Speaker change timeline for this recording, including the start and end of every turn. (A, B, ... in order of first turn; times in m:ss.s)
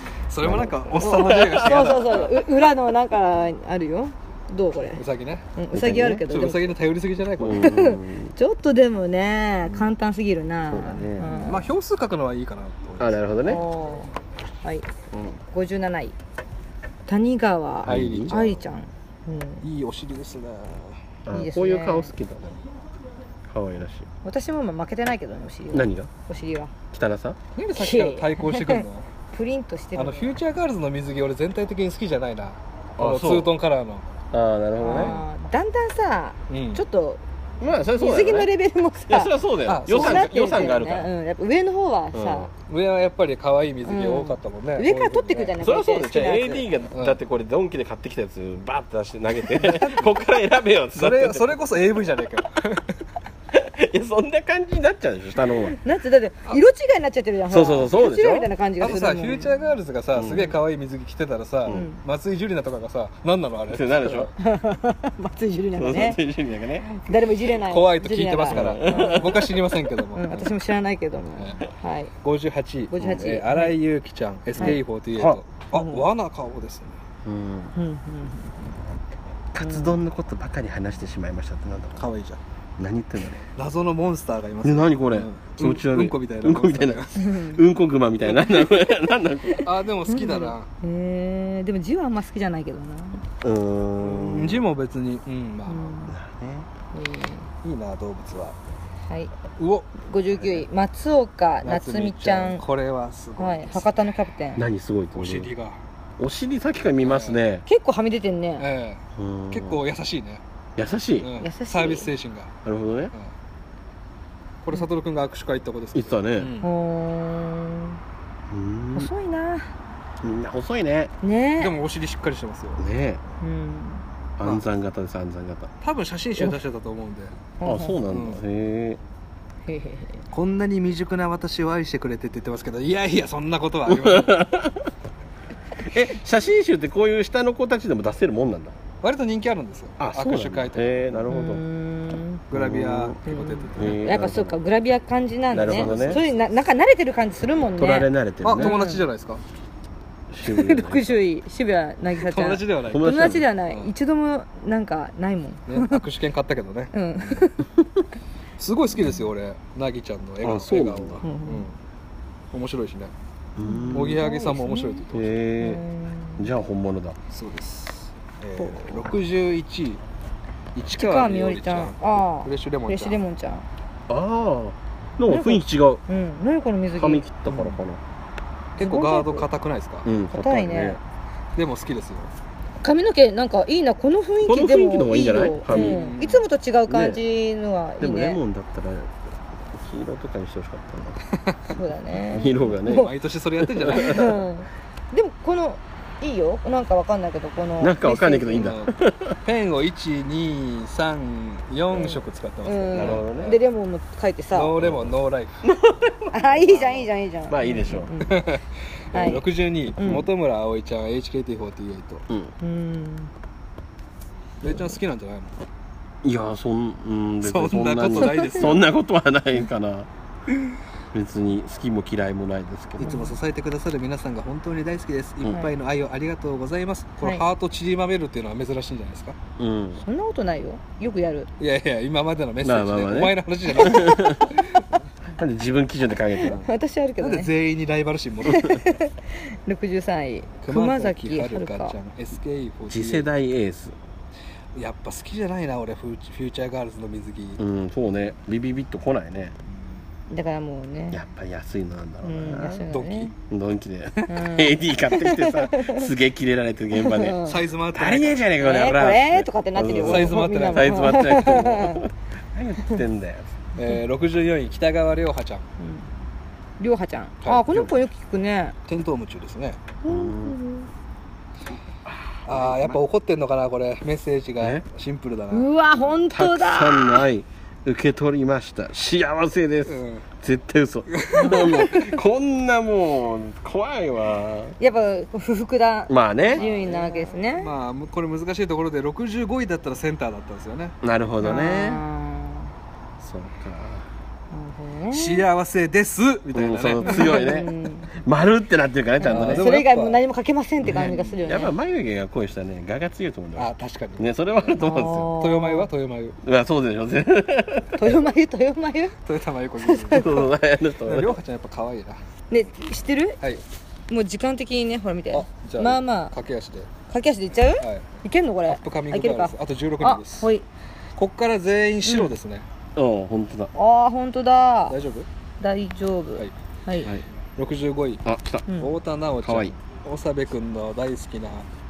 0:00.3-0:02.4 A
0:00.4-0:02.0 B
0:01.0-0:05.0 C
0:05.0-0:05.5 A
0:05.6-0:06.8 C
0:05.7-0:06.3 B
0:06.2-0:07.7 A
0:07.4-0:08.3 B
0:07.5-0:11.7 C
0:10.7-0:11.5 B
0:11.3-0:13.2 A
0:13.0-0:13.6 B
0:13.4-0:14.9 C
0:15.1-0:15.4 B
0:15.5-0:16.2 C
0:17.1-0:19.7 C
0:17.8-0:18.3 B
0:17.8-0:18.6 A
0:19.6-0:21.0 A
0:21.3-0:22.6 B
0:21.3-0:22.1 C
0:23.5-0:24.1 B
0:24.2-0:26.7 C
0:25.7-0:26.1 B
0:26.9-0:27.4 B
0:27.6-0:29.1 A
0:27.8-0:30.3 C
0:30.0-0:34.0 A
0:33.0-0:33.5 B
0:34.3-0:35.2 B
0:34.8-0:37.2 C
0:34.9-0:35.2 A
0:36.5-0:36.8 A
0:37.6-0:38.5 B
0:37.9-0:39.3 C
0:39.1-0:41.1 B
0:39.7-0:40.3 A
0:39.9-0:42.5 C
0:42.1-0:42.5 B
0:42.7-0:45.6 A
0:43.8-0:46.7 C
0:45.6-0:51.6 B
0:46.9-0:47.2 A
0:49.6-0:50.1 A
0:51.0-0:53.0 A
0:53.5-0:55.8 B
0:55.8-0:59.7 C
0:57.5-0:58.5 B
0:58.8-1:04.3 A
1:00.2-1:00.6 B
1:01.7-1:02.0 C
1:03.7-1:04.3 B
1:04.4-1:06.2 C
1:05.8-1:06.9 B
1:06.9-1:09.5 C
1:07.5-1:10.5 A
1:08.5-1:09.8 B
1:10.2-1:12.1 C
1:11.4-1:11.6 A
1:12.2-1:17.0 A
1:12.9-1:13.8 C
1:13.0-1:13.3 B
1:14.6-1:15.4 B
1:15.7-1:16.1 C
1:17.2-1:17.7 B
1:17.8-1:18.7 C
1:19.5-1:22.0 B
1:19.6-1:20.0 C
1:22.0-1:22.4 A
1:22.8-1:23.5 B
1:23.6-1:27.2 A
1:24.6-1:29.7 B
1:27.2-1:27.6 C
1:29.6-1:30.7 A
1:30.1-1:33.2 C
1:33.4-1:34.7 B
1:34.0-1:36.0 A
1:35.7-1:36.2 C
1:36.0-1:36.7 B
1:36.9-1:37.5 C
1:37.6-1:38.6 A
1:39.6-1:40.7 A
1:40.0-1:42.6 C
1:41.6-1:44.0 A
1:43.4-1:44.6 C
1:44.6-1:45.5 B
1:45.1-1:45.8 A
1:46.2-1:47.6 B
1:47.0-1:47.4 A
1:47.7-1:48.7 C
1:48.6-1:50.4 A
1:49.2-1:49.8 B
1:50.8-1:51.3 B
1:51.2-1:52.5 A
1:51.4-1:52.1 C
1:52.6-1:53.1 B
1:54.6-1:56.7 A
1:55.9-1:56.5 B
1:56.6-1:58.0 C
1:58.5-1:59.1 B
1:59.0-1:59.7 C
2:00.2-2:01.1 B
2:01.2-2:01.8 C
2:01.6-2:02.8 A
2:02.8-2:03.2 B
2:03.4-2:04.0 C
2:04.4-2:05.7 B
2:05.8-2:07.4 A
2:07.6-2:08.0 C
2:07.6-2:09.0 B
2:08.1-2:08.4 A
2:09.7-2:10.2 C
2:10.3-2:14.5 A
2:13.9-2:14.9 B
2:15.8-2:18.7 B
2:19.0-2:21.1 A
2:20.0-2:21.6 B
2:21.3-2:22.4 C
2:22.5-2:24.0 A
2:22.5-2:23.2 B
2:23.2-2:29.1 C
2:23.7-2:24.6 B
2:25.5-2:26.2 B
2:25.6-2:26.2 A
2:27.8-2:28.8 B
2:28.4-2:29.4 A
2:30.3-2:31.2 B
2:30.5-2:36.0 C
2:32.2-2:33.9 A
2:32.8-2:33.5 B
2:35.7-2:37.5 A
2:36.9-2:37.6 C
2:38.6-2:41.8 A
2:40.4-2:41.2 B
2:41.2-2:41.7 C
2:42.5-2:43.1 A
2:43.6-2:44.2 B
2:43.6-2:45.0 C
2:43.9-2:45.4 A
2:45.1-2:45.9 B
2:45.6-2:46.5 C
2:46.4-2:47.2 B
2:47.3-2:50.0 A
2:48.6-2:49.1 C
2:50.7-2:53.2 A
2:50.9-2:53.7 C
2:54.1-2:56.0 B
2:55.3-2:57.2 C
2:57.0-2:58.0 B
2:57.5-2:57.8 A
2:58.8-3:00.1 A
2:58.8-2:59.5 C
3:00.0-3:01.0 B
3:00.3-3:01.0 C
3:01.6-3:02.3 A
3:02.8-3:08.4 C
3:04.4-3:06.1 B
3:05.7-3:06.5 A
3:06.9-3:07.2 B
3:08.0-3:11.2 B
3:11.7-3:13.1 C
3:12.3-3:14.4 B
3:12.8-3:14.4 A
3:13.9-3:18.7 C
3:17.8-3:19.4 B
3:18.5-3:23.6 A
3:21.9-3:24.8 C
3:22.9-3:23.6 B
3:24.5-3:25.6 A
3:24.8-3:28.1 B
3:26.3-3:28.4 C
3:28.2-3:32.3 A
3:29.1-3:30.3 C
3:32.6-3:33.3 C
3:34.6-3:35.5 A
3:36.2-3:40.1 B
3:37.4-3:38.9 A
3:38.4-3:38.7 C
3:41.1-3:43.2 B
3:43.0-3:49.4 A
3:43.0-3:43.4 C
3:49.6-3:50.0 B
3:50.0-3:51.5 C
3:51.6-3:54.8 A
3:52.6-3:54.6 B
3:55.4-3:56.6 B
3:56.4-3:57.5 C
3:57.2-3:58.7 A
3:58.4-4:02.0 C
4:00.6-4:03.3 A
4:02.9-4:04.0 B
4:04.8-4:07.6 A
4:07.6-4:09.6 B
4:10.3-4:11.2 C
4:11.1-4:12.8 B
4:12.2-4:13.3 C
4:12.9-4:13.3 A
4:13.5-4:17.4 B
4:14.3-4:16.1 C
4:16.9-4:17.6 C
4:17.4-4:18.5 A
4:17.9-4:23.5 B
4:18.6-4:22.1 C
4:20.0-4:21.5 A
4:23.8-4:25.6 A
4:25.8-4:26.1 C
4:26.8-4:28.8 C
4:27.6-4:27.9 B
4:28.9-4:29.8 A
4:30.0-4:30.9 C
4:30.1-4:30.6 B
4:32.0-4:33.0 B
4:32.5-4:35.7 A
4:35.5-4:37.3 C
4:36.3-4:44.8 B
4:39.9-4:40.3 A
4:41.1-4:42.0 A
4:41.3-4:42.2 C
4:44.8-4:47.7 C
4:46.1-4:46.6 B
4:46.4-4:51.0 A
4:51.0-4:52.0 B
4:51.4-4:52.7 C
4:53.2-4:54.1 B
4:54.5-4:55.5 C
4:55.1-4:57.5 A
4:56.5-4:59.7 B
4:57.0-4:58.1 C
4:59.2-5:01.8 C
4:59.2-5:00.2 A
5:00.8-5:05.4 B
5:00.9-5:01.4 A
5:03.6-5:04.8 A
5:04.8-5:05.9 C
5:05.4-5:06.4 A
5:06.4-5:08.2 B
5:08.0-5:09.2 C
5:09.3-5:10.3 A
5:09.8-5:10.5 C
5:10.1-5:11.4 B
5:11.1-5:12.2 A
5:12.5-5:13.4 C
5:14.1-5:16.3 C
5:15.3-5:16.9 A
5:17.1-5:20.7 C
5:17.8-5:18.1 A
5:18.7-5:20.5 A
5:21.2-5:22.7 A
5:22.1-5:22.3 C
5:23.0-5:23.7 B
5:23.7-5:25.0 C
5:24.9-5:25.3 A
5:25.6-5:27.1 C
5:26.4-5:28.2 A
5:28.2-5:28.7 B
5:28.7-5:28.9 C
5:28.8-5:31.7 A
5:29.4-5:29.7 B